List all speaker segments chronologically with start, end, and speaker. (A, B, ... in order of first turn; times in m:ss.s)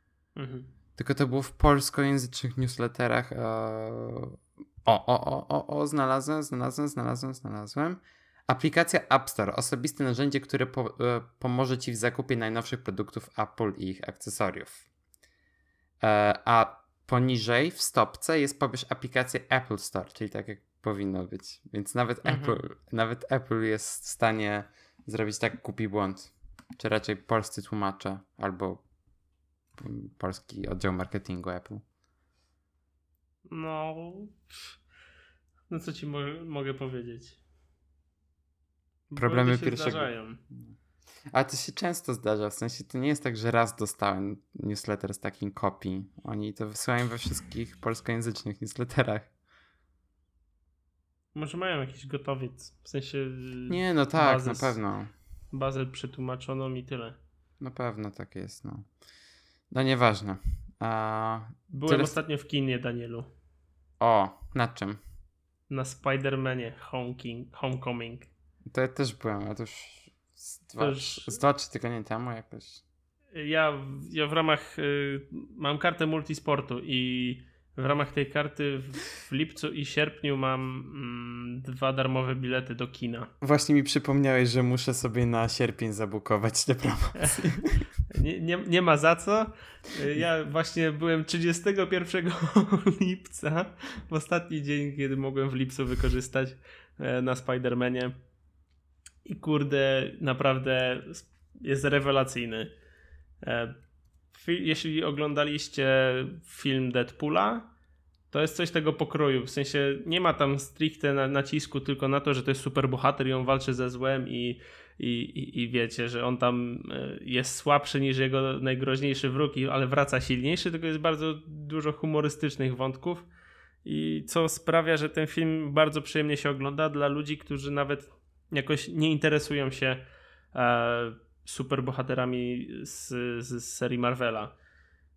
0:00.4-0:00.7 A
0:01.0-0:14.8 B
0:16.0-0:28.8 B
0:22.2-0:22.6 A
0:29.8-0:31.8 B
0:33.5-0:34.7 A
0:35.7-0:37.4 A
0:39.1-0:40.4 A
0:39.2-0:40.1 B
0:41.3-0:49.3 B
0:51.3-0:54.8 A
0:53.7-0:55.1 B
0:55.5-0:57.2 A
0:57.6-0:58.9 B
0:59.7-1:02.1 B
1:01.7-1:03.3 A
1:04.0-1:05.0 B
1:05.7-1:08.3 A
1:08.7-1:12.8 B
1:10.8-1:11.4 A
1:13.3-1:23.3 A
1:23.4-1:27.8 B
1:27.2-1:38.2 A
1:39.2-1:42.7 A
1:43.4-1:43.7 A
1:44.3-1:47.7 A
1:48.3-2:03.3 A
2:03.8-2:14.5 A